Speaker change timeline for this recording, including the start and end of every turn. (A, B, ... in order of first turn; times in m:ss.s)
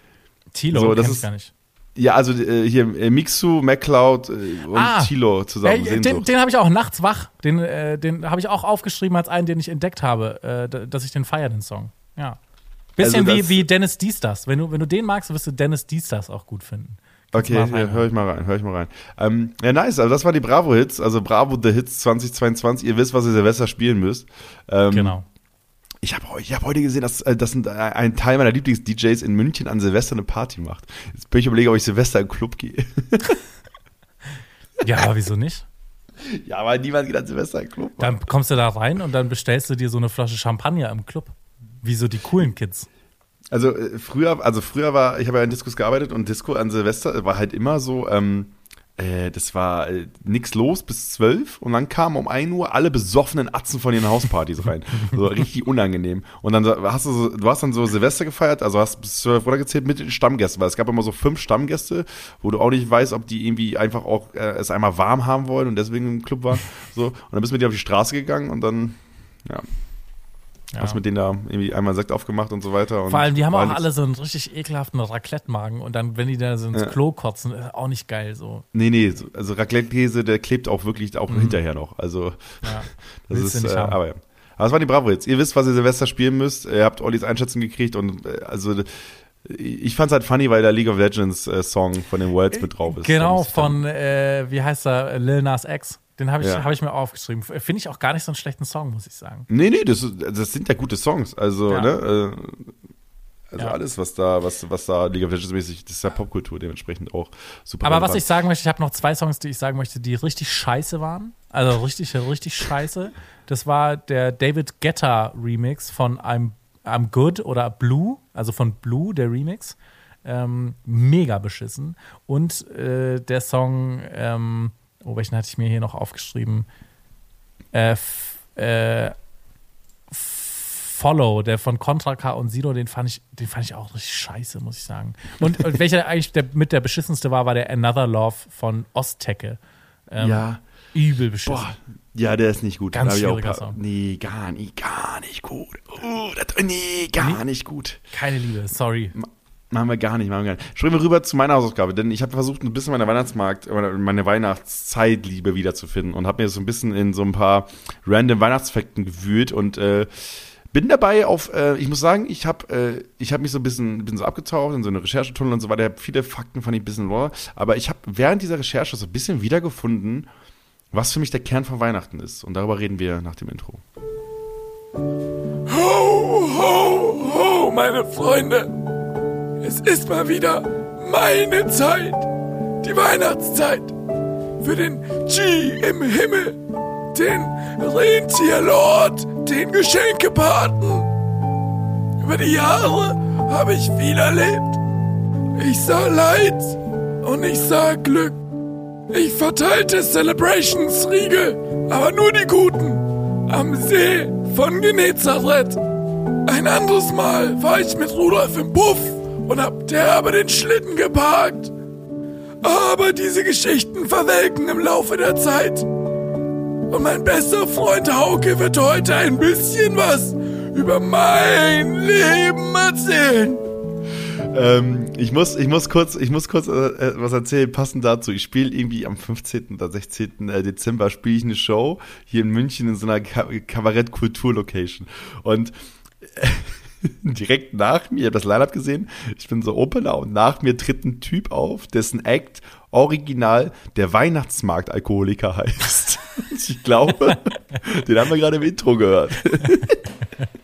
0:00.5-0:01.5 A
0:00.7-0:01.3 B
0:02.0-0:06.3 B
0:04.7-0:12.4 A
0:13.0-0:18.1 A
0:13.0-0:13.6 B
0:17.3-0:25.2 B
0:24.9-0:25.2 A
0:26.0-0:33.3 B
0:34.8-0:35.6 A
0:36.2-0:38.2 B
0:38.0-0:42.9 A
0:43.5-1:09.6 B
1:10.7-1:11.0 A
1:10.8-1:13.8 B
1:13.1-1:18.6 A
1:18.7-1:28.9 B
1:21.3-1:21.6 A
1:22.6-1:24.0 A
1:29.4-1:33.8 B
1:32.6-1:39.5 A
1:36.4-1:36.6 B
1:39.5-1:42.7 B
1:43.5-1:48.2 B
1:47.8-2:06.7 A
2:07.7-2:09.1 A
2:10.1-2:19.6 A
2:20.1-2:21.7 A
2:20.2-2:20.6 B
2:21.4-2:28.0 B
2:22.9-2:23.8 A
2:28.1-2:29.2 A
2:29.2-2:50.3 B
2:50.9-2:53.8 B
2:55.7-2:58.7 C
2:59.6-3:02.3 C
3:02.8-3:03.9 C
3:04.6-3:06.6 C
3:07.1-3:11.1 C
3:12.2-3:14.8 C
3:15.5-3:18.4 C
3:19.1-3:25.8 C
3:26.4-3:31.7 C
3:32.6-3:35.9 C
3:36.9-3:43.6 C
3:44.5-4:10.0 B